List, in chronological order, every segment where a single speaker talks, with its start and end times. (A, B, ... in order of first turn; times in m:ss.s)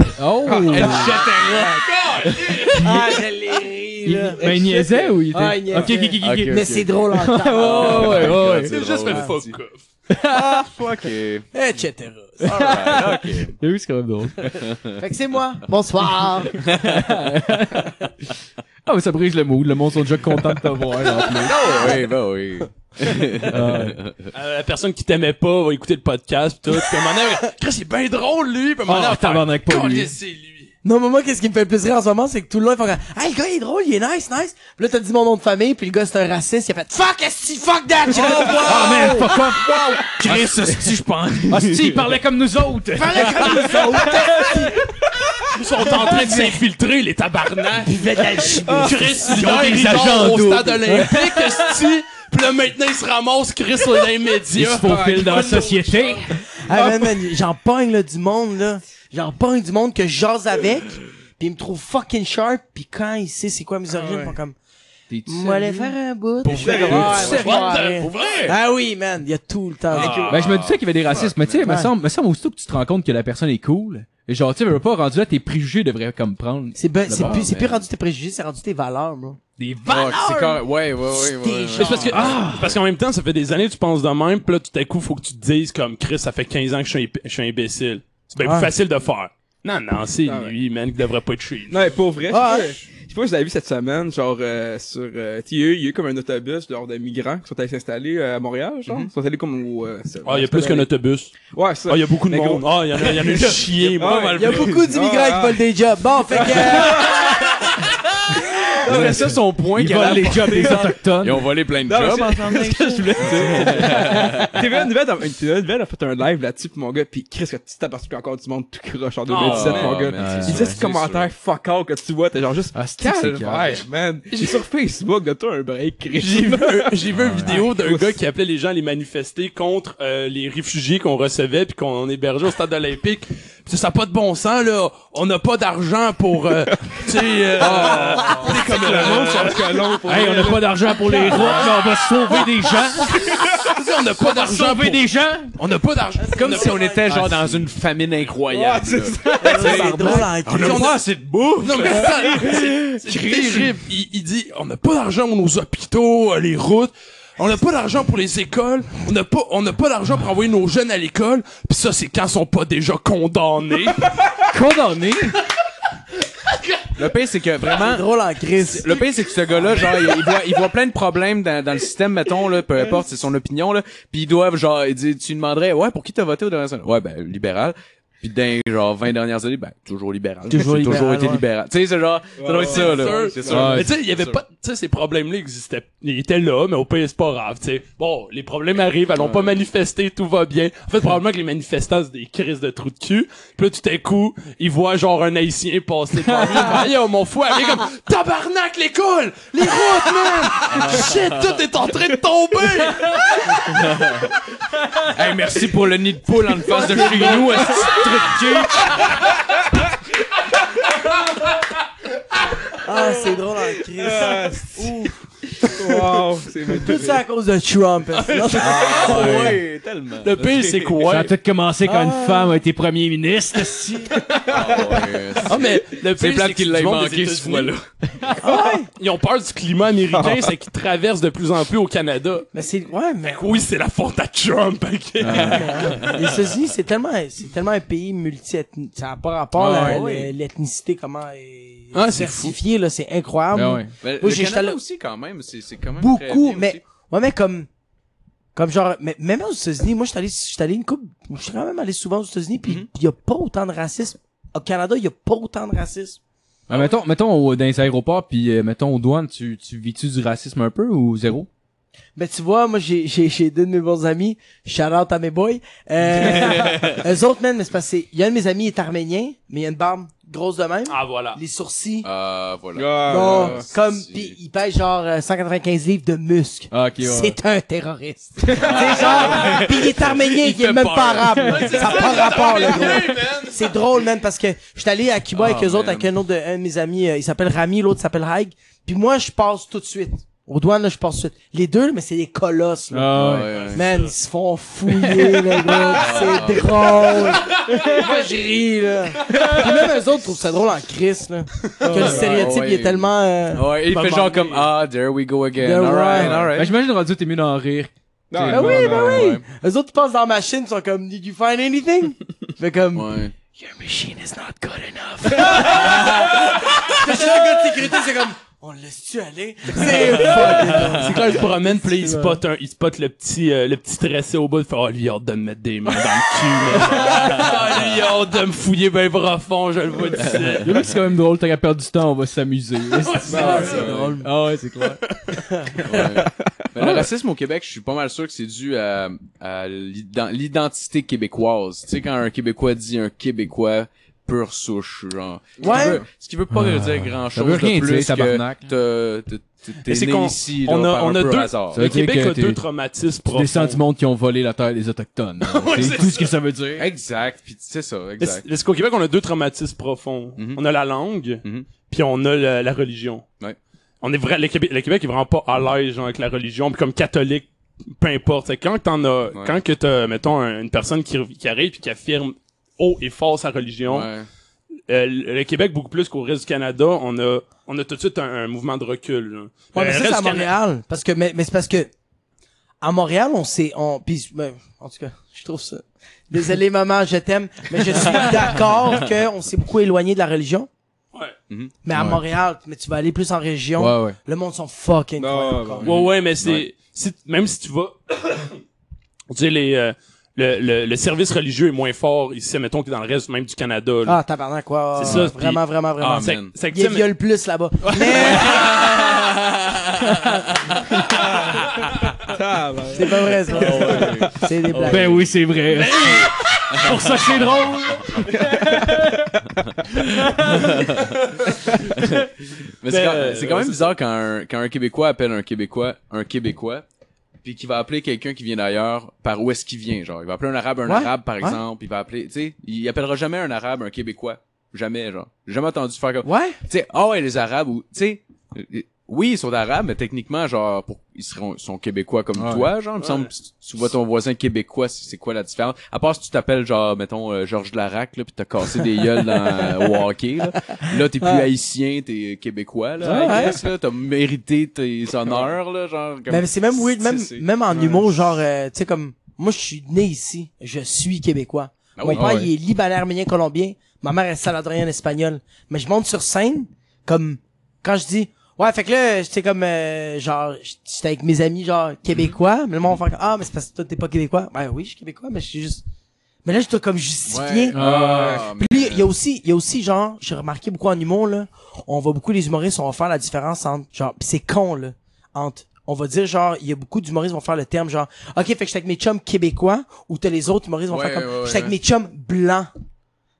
0:00.2-0:01.2 A
0:00.5-0:01.8 B
0:00.6-0:02.9 C
0:01.2-0:02.8 D
0:02.5-0:03.1 A
0:02.7-0:08.4 E
0:04.0-0:09.2 A
0:06.2-0:09.6 C
0:08.4-0:09.8 D
0:10.1-0:10.6 A
0:10.3-0:11.5 C
0:11.5-0:13.0 E
0:12.4-0:13.6 C
0:12.5-0:14.5 A
0:14.4-0:15.0 C
0:15.0-0:16.6 E
0:16.5-0:17.3 C
0:16.7-0:18.0 A
0:18.9-0:22.0 A
0:21.3-0:24.3 C
0:23.5-0:24.0 A
0:24.3-0:30.7 D
0:28.9-0:30.1 A
0:30.8-0:39.4 E
0:38.1-0:39.7 D
0:38.4-0:39.1 C
0:38.5-0:44.7 A
0:40.0-0:42.0 C
0:43.0-0:44.8 E
0:45.5-0:56.3 D
0:46.0-0:46.6 A
0:47.8-0:49.2 E
0:48.6-0:49.2 B
0:49.2-0:51.6 A
0:54.6-0:56.3 A
0:54.8-0:55.7 B
0:56.6-1:04.6 E
0:56.7-0:57.2 B
1:03.9-1:04.4 B
1:05.1-1:06.0 A
1:05.3-1:10.3 E
1:06.4-1:07.4 C
1:06.4-1:07.4 B
1:06.7-1:07.7 A
1:07.2-1:08.5 D
1:08.0-1:08.6 C
1:09.9-1:11.8 C
1:10.0-1:10.3 D
1:10.3-1:17.4 A
1:11.6-1:11.9 E
1:16.8-1:19.4 E
1:17.1-1:17.9 C
1:19.6-1:20.6 A
1:19.9-1:22.4 C
1:21.2-1:22.4 E
1:21.7-1:31.8 D
1:22.1-1:22.7 A
1:28.4-1:28.7 E
1:30.3-1:30.5 B
1:31.7-1:40.9 B
1:32.3-1:32.8 E
1:40.2-1:41.4 D
1:41.5-1:45.6 B
1:41.9-1:44.7 D
1:44.4-1:47.3 E
1:44.4-1:44.8 C
1:46.3-1:47.4 B
1:47.2-1:54.5 C
1:48.8-1:49.4 B
1:49.0-1:51.5 A
1:51.9-2:08.2 B
1:52.6-1:54.4 A
1:59.3-2:00.0 D
1:59.3-2:01.3 C
2:00.1-2:00.8 A
2:02.7-2:03.8 A
2:03.2-2:03.8 C
2:06.1-2:20.0 D
2:07.2-2:07.6 C
2:17.6-2:21.8 B
2:20.0-2:23.3 A
2:21.4-2:21.7 D
2:23.2-2:26.9 D
2:23.3-2:23.7 B
2:24.2-2:25.6 A
2:26.2-2:27.3 E
2:26.4-2:33.6 C
2:27.1-2:27.4 A
2:28.5-2:29.5 B
2:29.2-2:30.3 A
2:29.4-2:31.0 E
2:30.5-2:31.0 D
2:31.6-2:44.2 D
2:44.4-2:45.4 A
2:46.5-2:46.9 D
2:47.0-3:04.4 C
2:47.7-2:49.1 E
2:49.9-2:50.2 D
3:00.5-3:01.4 E
3:02.4-3:03.8 B
3:02.6-3:23.6 D
3:03.5-3:03.9 A
3:09.2-3:09.6 C
3:20.7-3:21.5 C
3:23.5-3:23.8 E
3:23.7-3:24.3 C
3:25.1-3:29.2 C
3:26.7-3:27.7 E
3:26.8-3:28.9 A
3:32.8-3:35.1 E
3:34.0-3:34.9 B
3:35.7-3:37.2 B
3:36.7-3:39.5 E
3:38.2-3:38.8 D
3:38.6-3:39.6 A
3:38.6-3:41.0 C
3:40.2-3:41.3 D
3:41.0-3:44.2 A
3:41.8-3:42.6 E
3:44.5-3:47.8 C
3:45.4-3:47.8 D
3:48.4-3:48.9 E
3:49.0-3:52.5 D
3:50.1-3:50.5 B
3:52.5-3:53.6 E
3:53.2-3:56.0 D
3:55.2-3:55.8 A
3:55.4-4:04.8 E
3:55.8-3:56.5 C
3:59.6-4:00.2 A
3:59.6-4:00.3 C
4:01.9-4:02.6 D
4:03.5-4:03.9 A
4:04.0-4:06.8 C
4:06.0-4:07.7 E
4:08.6-4:16.2 E
4:12.6-4:12.9 C
4:16.7-4:17.0 C
4:16.7-4:21.5 A
4:22.2-4:32.1 E
4:26.2-4:27.0 C
4:30.9-4:31.4 D
4:32.0-4:34.4 C
4:32.8-4:33.7 B
4:33.1-5:03.7 E
4:36.7-4:37.4 A
4:38.5-4:39.0 A
4:38.6-4:43.2 C
4:38.8-4:39.6 D
4:40.4-4:43.8 D
4:45.3-4:46.1 C
4:52.9-4:53.5 A
4:53.1-4:53.9 C
4:53.5-4:54.1 D
4:54.9-4:55.7 A
4:55.8-4:57.4 C
4:57.7-4:58.0 A
4:57.9-4:58.1 D
5:01.8-5:02.4 B
5:02.0-5:06.7 C
5:03.9-5:04.7 D
5:05.6-5:06.5 E
5:06.2-5:09.2 A
5:08.3-5:09.2 B
5:08.5-5:21.6 E
5:08.6-5:09.4 C
5:12.9-5:13.3 C
5:19.9-5:30.8 D
5:27.1-5:27.6 C
5:30.2-5:30.6 C
5:30.6-5:35.0 A
5:33.0-5:33.8 D
5:33.3-5:34.2 B
5:33.3-5:34.2 E
5:35.6-5:35.9 E
5:35.8-5:51.9 C
5:36.8-5:37.0 A
5:45.6-5:46.0 B
5:45.6-5:46.0 E
5:46.5-5:48.7 A
5:49.9-5:53.8 D
5:51.7-5:52.6 A
5:53.3-5:56.9 A
5:55.4-5:56.3 D
5:56.8-5:58.4 C
5:58.2-6:03.2 D
6:04.0-6:14.1 D
6:13.9-6:14.3 C
6:14.9-6:20.5 D
6:19.7-6:21.9 E
6:22.8-6:30.7 E
6:31.8-6:35.9 E
6:31.9-6:32.2 A
6:33.8-6:34.2 A
6:35.2-6:35.9 B
6:35.8-6:36.7 C
6:35.8-6:38.6 D
6:39.3-6:44.2 D
6:44.1-6:48.8 E
6:45.0-6:47.1 D
6:45.1-6:45.3 C
6:46.0-6:46.5 C
6:48.1-6:48.4 D
6:48.2-6:51.0 C
6:51.1-6:51.6 B
6:52.2-6:54.4 B
6:52.9-6:55.2 E
6:53.5-6:55.3 C
6:54.8-6:59.3 A
6:55.7-6:57.2 D
6:56.8-6:57.4 C
6:58.3-6:59.1 B
7:00.2-7:00.8 A
7:00.5-7:01.2 C
7:02.0-7:02.3 C
7:02.8-7:06.8 C
7:02.9-7:03.9 D
7:07.4-7:38.3 C
7:10.9-7:11.6 E
7:16.2-7:16.6 E
7:22.4-7:22.7 A
7:23.0-7:23.3 D
7:29.5-7:29.9 E
7:31.2-7:31.5 E
7:33.0-7:33.6 E
7:33.0-7:33.5 A
7:36.3-7:55.8 E
7:42.0-7:42.5 C
7:42.1-7:42.5 A
7:56.4-8:12.7 E
7:57.3-7:59.1 C
7:57.7-7:58.5 A
8:10.9-8:11.8 C